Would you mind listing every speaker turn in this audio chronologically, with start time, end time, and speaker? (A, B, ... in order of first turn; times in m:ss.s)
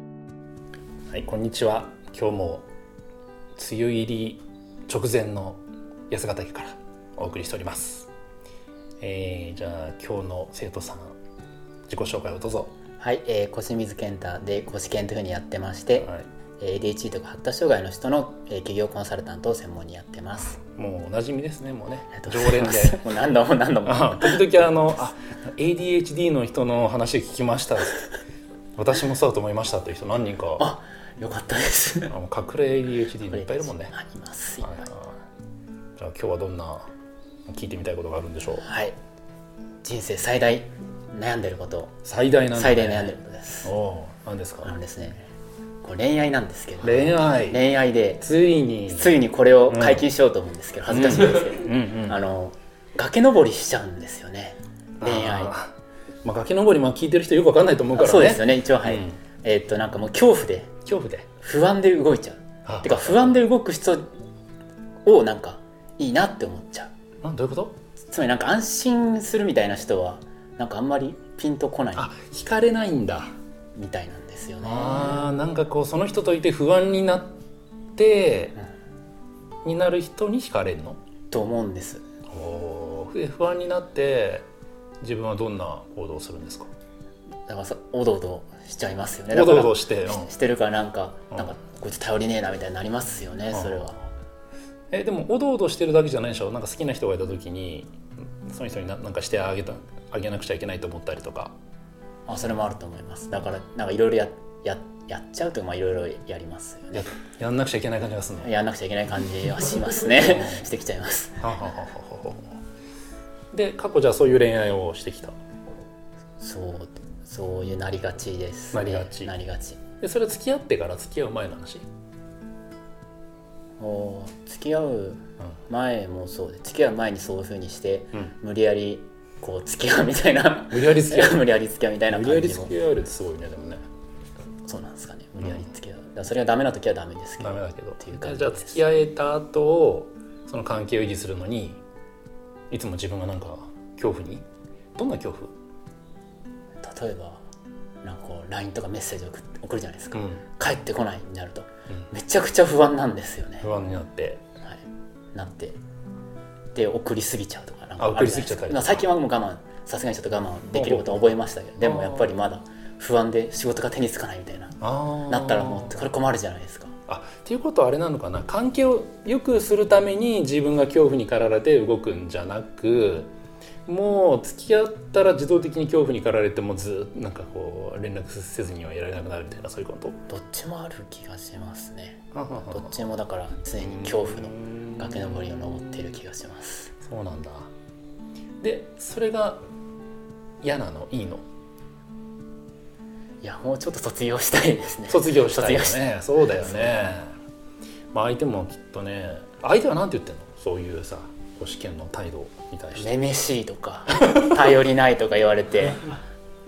0:01.1-0:02.7 A
0:03.6-0:08.1 A
0:09.0-0:11.2 A
0:11.9-0:12.8 A
0:13.0-0:20.6 B
0:16.0-0:16.3 A
0:20.6-0:23.1 A
0:22.2-0:24.6 B
0:23.8-0:28.1 A
0:28.8-0:30.7 A
0:30.6-0:32.1 B
0:32.1-0:33.9 A
0:33.3-0:34.9 B
0:34.6-0:35.2 A
0:36.0-0:36.9 A
0:37.5-0:38.6 A
0:38.6-0:39.0 B
0:39.8-0:42.0 B
0:42.0-0:44.7 A
0:42.5-0:43.7 B
0:44.6-0:45.3 B
0:45.8-0:48.3 B
0:46.8-0:47.6 A
0:48.2-0:50.1 A
0:48.9-0:55.5 B
0:50.9-0:52.2 A
0:55.0-0:59.2 A
0:58.0-1:00.7 B
1:00.9-1:01.3 A
1:01.4-1:04.1 B
1:02.6-1:03.4 A
1:05.0-1:06.9 B
1:07.2-1:07.8 A
1:08.1-1:12.1 B
1:12.0-1:13.3 A
1:13.8-1:15.3 B
1:14.6-1:17.4 A
1:18.0-1:18.6 A
1:19.6-1:21.0 A
1:21.3-1:22.0 B
1:22.3-1:24.5 A
1:25.0-1:26.7 A
1:27.5-1:34.0 B
1:29.3-1:30.3 A
1:33.5-1:33.9 A
1:34.9-1:37.9 A
1:38.5-1:41.6 A
1:42.3-1:47.1 B
1:46.9-1:48.5 A
1:48.4-1:51.5 B
1:50.2-1:50.7 A
1:51.4-1:52.5 A
1:53.5-1:55.4 A
1:56.4-1:59.8 B
1:58.7-1:59.3 A
2:00.0-2:01.9 A
2:03.8-2:12.7 B
2:10.7-2:11.5 A
2:12.1-2:13.8 A
2:14.6-2:18.8 B
2:15.4-2:15.7 A
2:17.4-2:21.8 A
2:22.7-2:24.4 A
2:25.0-2:25.5 A
2:26.8-2:27.4 B
2:28.0-2:33.7 B
2:30.1-2:30.4 A
2:33.6-2:34.4 A
2:35.3-2:35.8 B
2:36.7-2:46.9 B
2:38.0-2:39.1 A
2:40.7-2:41.3 A
2:41.8-2:42.3 A
2:44.8-2:46.0 A
2:47.1-2:53.3 A
2:53.9-3:00.2 A
3:00.3-3:06.9 B
3:02.3-3:03.0 A
3:04.0-3:05.4 A
3:07.0-3:07.7 A
3:08.6-3:09.6 A
3:10.6-3:11.4 A
3:13.4-3:17.1 B
3:15.1-3:17.3 A
3:18.1-3:23.2 A
3:23.0-3:26.2 B